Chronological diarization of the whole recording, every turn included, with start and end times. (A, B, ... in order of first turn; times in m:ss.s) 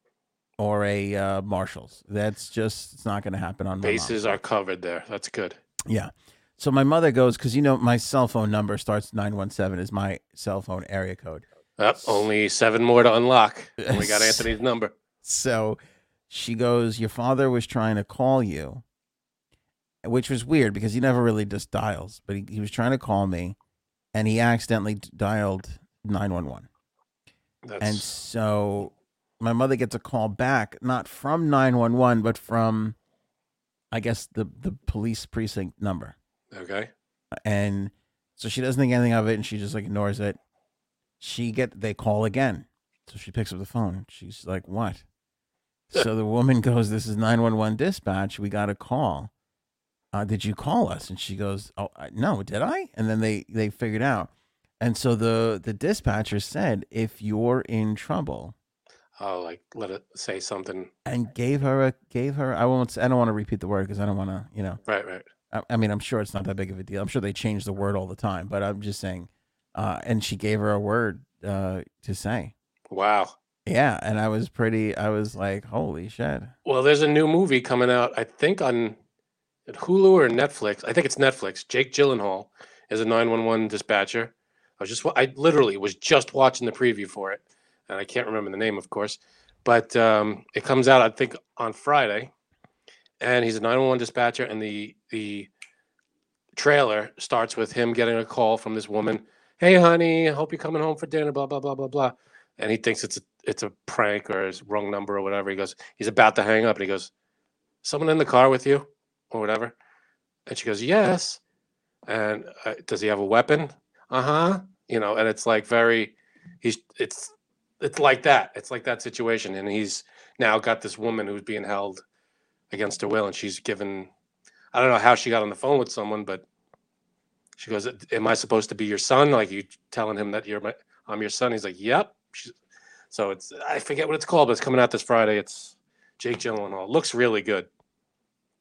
0:00.6-0:04.4 A
0:03.8-0:05.6 B
0:05.9-0:11.4 A
0:11.8-0:14.9 B
0:12.0-0:12.2 A
0:13.8-0:14.5 A
0:15.2-0:18.8 A
0:20.0-0:23.6 A
0:24.1-0:26.7 A
0:27.6-0:28.1 B
0:27.8-0:33.0 A
0:33.9-0:36.2 A
0:36.5-0:36.9 B
0:37.4-0:40.4 A
0:41.2-0:45.0 A
0:45.9-0:49.3 A
0:50.1-0:54.3 A
0:54.8-0:58.6 A
0:59.2-1:00.9 B
1:01.1-1:04.8 A
1:04.9-1:05.2 B
1:05.5-1:12.5 A
1:12.9-1:13.3 B
1:13.7-1:16.5 A
1:16.7-1:19.0 B
1:19.7-1:32.3 B
1:33.2-1:35.5 B
1:36.6-1:47.1 B
1:47.8-1:49.8 B
1:50.5-1:51.4 B
1:52.1-2:02.0 B
2:02.7-2:04.1 B
2:04.7-2:06.4 B
2:07.6-2:12.5 B
2:13.1-2:17.7 B